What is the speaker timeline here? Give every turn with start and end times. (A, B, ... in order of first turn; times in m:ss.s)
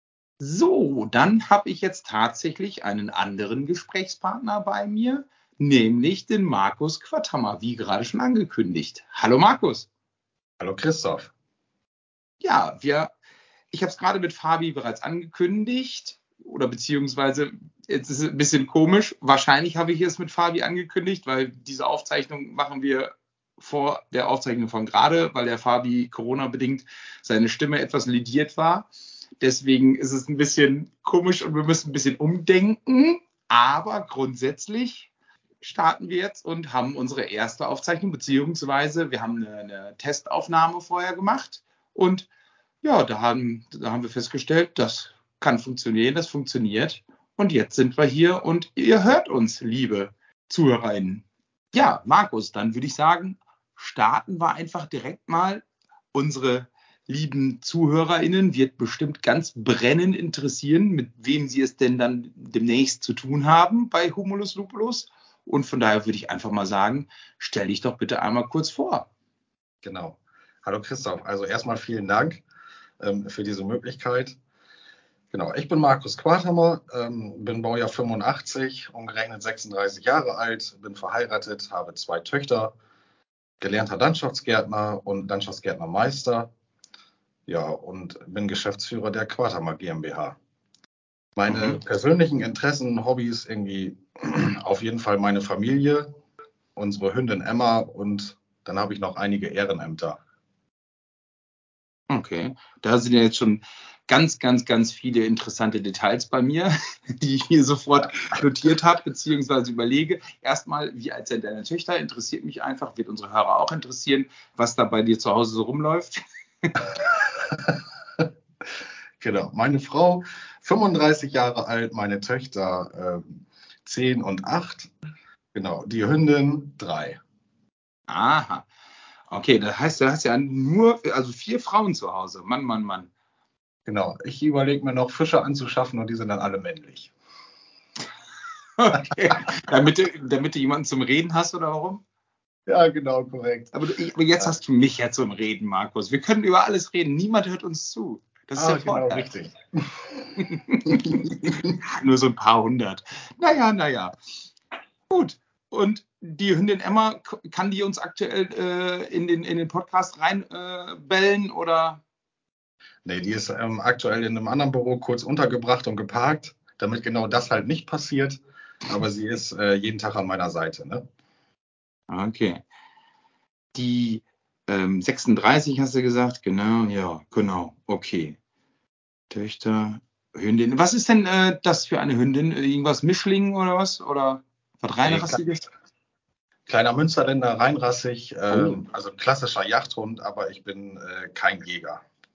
0:00.4-0:09.9 A
0:10.6-0:11.3 B
0:12.4-0:13.1 A
0:13.7-0:28.9 A
0:29.4-0:35.1 A
0:35.6-0:42.3 A
0:42.8-1:09.1 A
1:09.8-1:12.4 B
1:13.0-1:14.4 B
1:15.3-1:22.7 B
1:23.6-1:26.5 B
1:27.5-1:30.4 B
1:31.4-1:36.1 B
1:31.5-1:31.8 A
1:36.8-1:40.2 B
1:42.1-1:56.1 A
1:57.2-1:58.3 B
1:59.2-2:04.9 B
2:05.5-2:07.2 B
2:08.1-2:08.7 A
2:09.3-2:13.1 A
2:13.9-2:17.1 B
2:18.8-2:22.0 A
2:22.7-2:23.7 B
2:23.7-2:29.3 A
2:28.6-2:30.3 B
2:30.4-2:34.1 A
2:30.9-2:31.6 B
2:35.1-2:42.0 A
2:43.0-2:51.0 B
2:52.1-2:52.6 A
2:53.7-2:58.4 A
2:59.3-3:05.7 A
3:05.0-3:05.4 B
3:06.7-3:12.0 B
3:08.5-3:08.8 A